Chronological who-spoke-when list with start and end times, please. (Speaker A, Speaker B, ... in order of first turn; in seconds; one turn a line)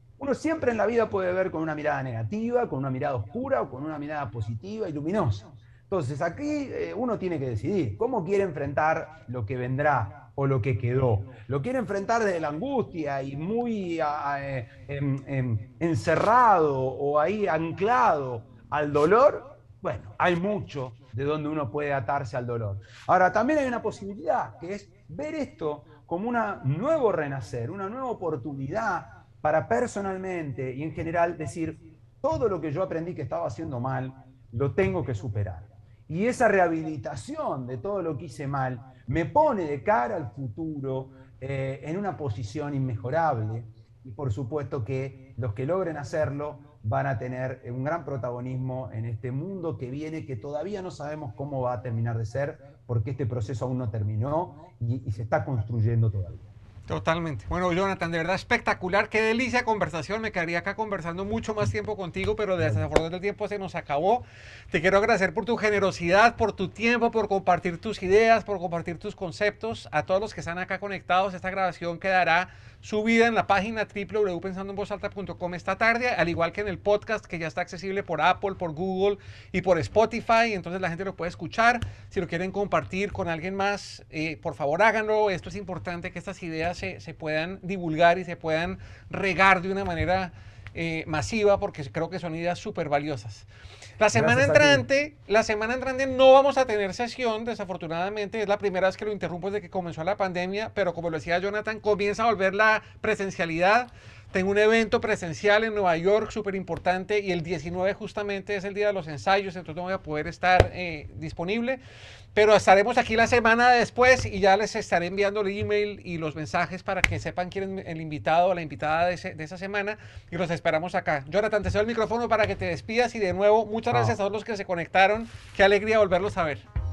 Speaker A: 0.2-56.5
Speaker B: 56.9-93.5
Speaker A: 62.6-62.9
Speaker B: 94.0-111.8
Speaker A: 94.1-94.8
Speaker B: 112.3-126.7
Speaker A: 123.9-124.2